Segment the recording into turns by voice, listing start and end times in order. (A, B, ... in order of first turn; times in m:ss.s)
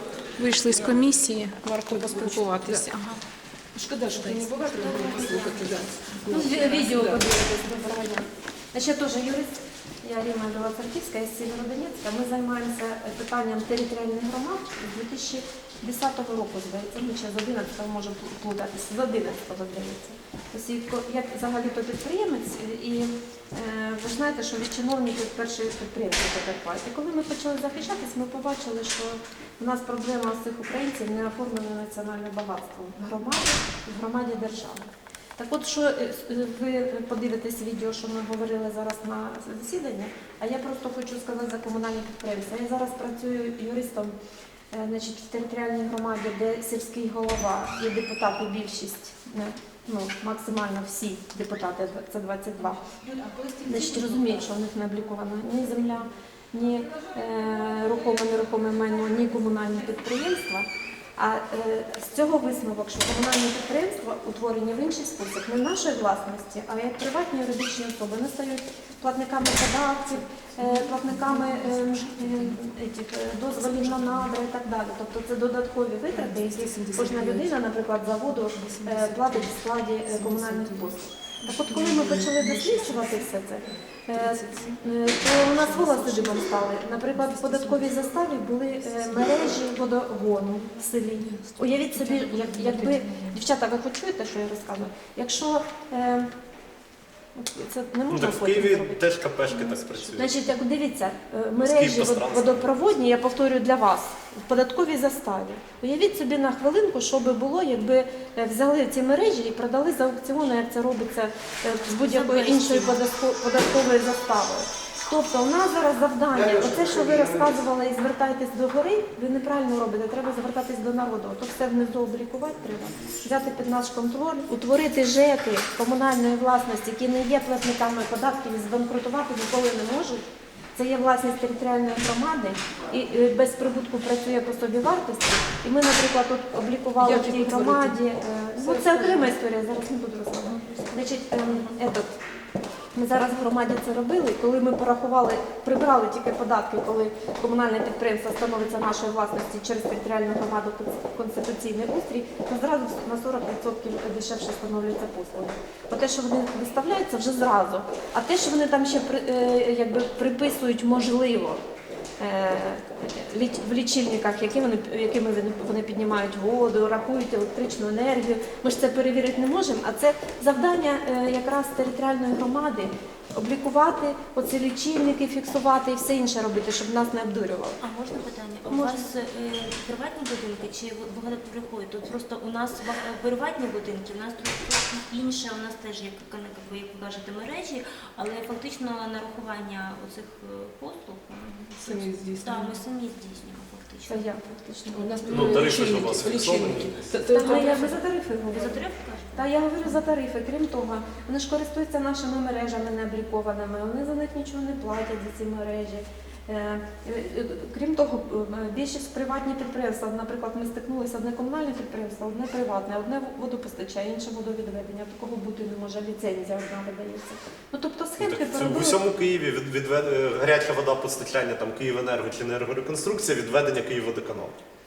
0:00.4-0:03.2 A
0:01.9-0:02.9 B
0:03.7-0:07.3 B
0:04.2-0:05.7 C
0:06.3-0:44.1 C
0:44.7-0:52.8 C
0:52.9-0:54.5 D
0:53.6-1:36.3 C
1:10.0-1:12.6 B
1:13.6-1:14.3 B
1:16.1-1:17.6 B
1:18.4-1:23.3 B
1:24.1-1:28.3 B
1:28.8-1:29.3 B
1:31.2-1:33.4 B
1:37.3-2:22.2 C
1:38.1-1:40.4 E
1:41.6-1:42.8 E
1:52.0-1:53.0 D
1:56.3-1:57.6 E
2:17.0-2:18.0 B
2:18.6-2:19.3 B
2:22.9-2:41.6 C
2:42.2-2:57.8 C
2:57.8-3:14.3 D
2:58.7-2:59.1 C
3:11.8-3:12.8 B
3:14.1-3:15.5 C
3:14.9-3:18.0 B
3:15.2-3:15.8 D
3:15.3-3:17.1 E
3:17.3-3:39.0 C
3:17.3-3:18.0 D
3:18.5-3:19.5 D
3:38.2-3:44.6 E